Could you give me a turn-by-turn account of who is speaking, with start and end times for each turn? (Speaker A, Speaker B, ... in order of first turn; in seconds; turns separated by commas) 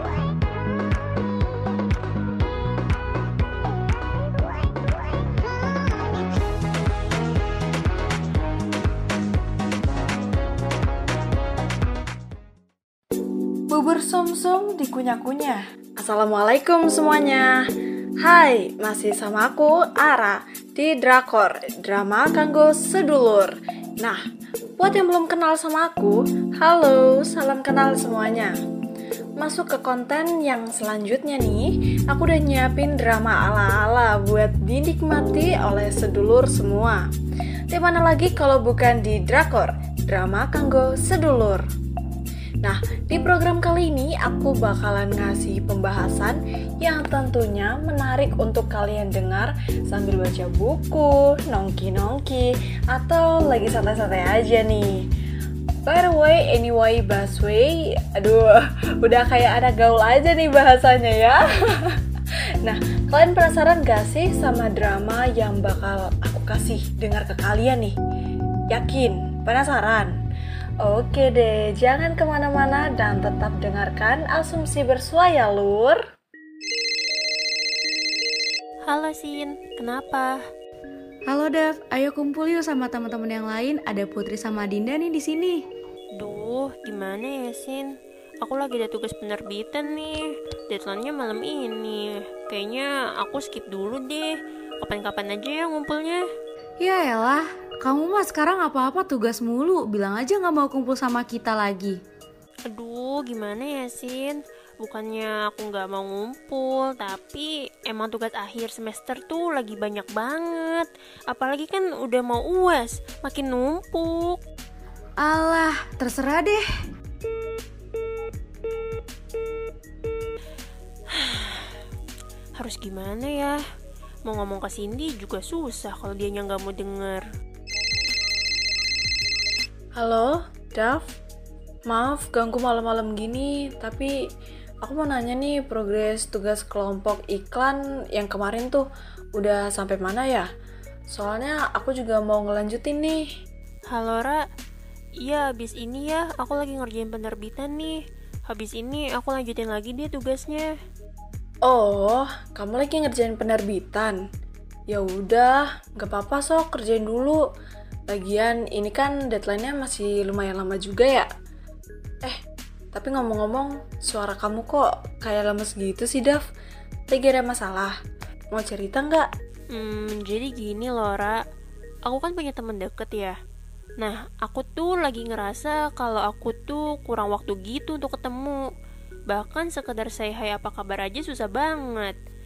Speaker A: 13.7-17.6, Speaker A: 18.2-24.2, Speaker A: 24.8-28.6, Speaker A: 29.4-37.0, Speaker A: 37.7-41.6, Speaker A: 42.6-55.0, Speaker A: 55.8-62.0, Speaker A: 62.6-67.9, Speaker A: 68.7-70.1, Speaker A: 70.8-76.0, Speaker B: 78.9-80.4, Speaker C: 81.3-85.6, Speaker B: 86.2-94.3, Speaker B: 94.8-96.2, Speaker C: 96.8-102.0, Speaker B: 102.7-114.4, Speaker C: 115.2-116.7, Speaker B: 121.1-121.8, Speaker B: 122.6-123.6, Speaker B: 124.3-127.2, Speaker A: 130.0-131.1, Speaker A: 131.9-134.1, Speaker A: 134.8-138.8, Speaker A: 139.4-140.5, Speaker A: 141.1-143.2, Speaker B: 143.9-144.4, Speaker B: 145.2-147.9, Speaker B: 148.5-150.7, Speaker A: 151.7-154.2, Speaker A: 154.9-157.4, Speaker A: 158.1-161.3, Speaker A: 162.9-166.4, Speaker A: 167.1-167.9, Speaker A: 168.5-169.3, Speaker B: 169.7-171.4, Speaker B: 172.1-173.4, Speaker B: 174.0-178.6, Speaker B: 179.3-182.2